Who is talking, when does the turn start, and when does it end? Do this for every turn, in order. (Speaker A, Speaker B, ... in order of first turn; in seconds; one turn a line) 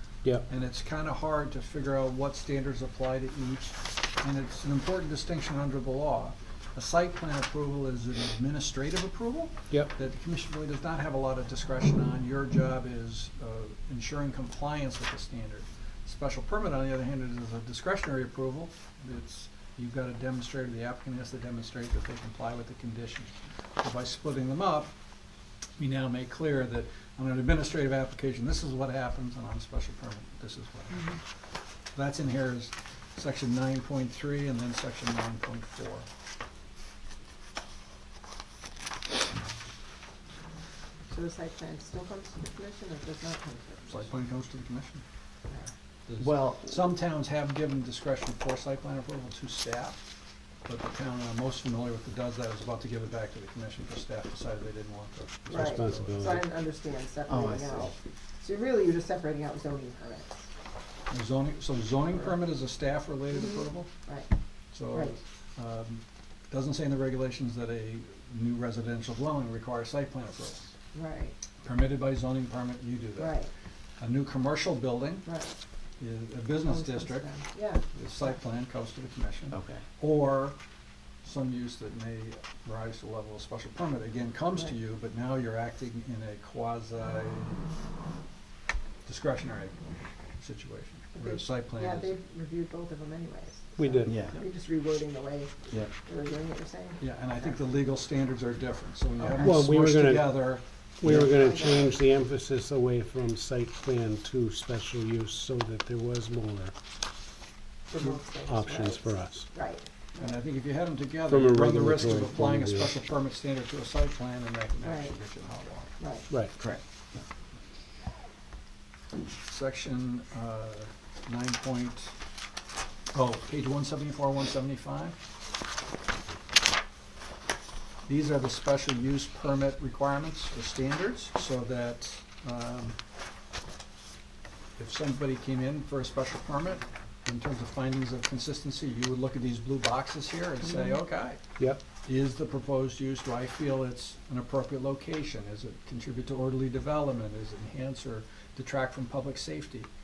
Speaker A: 0.5-24.9
Speaker A: 25.8-31.2
Speaker A: 31.9-36.1
Speaker B: 41.1-44.1
Speaker A: 43.9-45.0
Speaker A: 46.1-50.0
Speaker C: 46.2-46.8
Speaker A: 50.7-56.4
Speaker D: 55.5-56.4
Speaker B: 55.5-60.5
Speaker C: 57.3-57.9
Speaker A: 61.1-63.9
Speaker B: 63.3-64.3
Speaker A: 64.7-70.7
Speaker B: 64.9-65.2
Speaker B: 70.9-71.4
Speaker A: 71.6-73.4
Speaker B: 73.2-73.5
Speaker A: 74.0-75.3
Speaker B: 75.2-75.5
Speaker A: 76.0-77.3
Speaker B: 76.7-77.8
Speaker A: 77.9-80.6
Speaker C: 79.5-79.9
Speaker A: 81.2-87.7
Speaker A: 89.0-89.8
Speaker A: 90.4-92.2
Speaker B: 91.2-97.5
Speaker D: 93.8-94.2
Speaker C: 94.1-94.4
Speaker A: 97.0-101.4
Speaker D: 99.4-106.7
Speaker B: 101.2-101.9
Speaker B: 107.9-110.4
Speaker D: 108.3-109.5
Speaker A: 110.2-115.9
Speaker D: 111.3-113.0
Speaker B: 114.8-115.2
Speaker B: 116.0-116.3
Speaker D: 116.3-116.6
Speaker C: 116.6-117.2
Speaker A: 119.5-122.2
Speaker A: 123.1-125.2
Speaker A: 128.1-133.0
Speaker A: 134.8-141.4
Speaker A: 142.0-149.9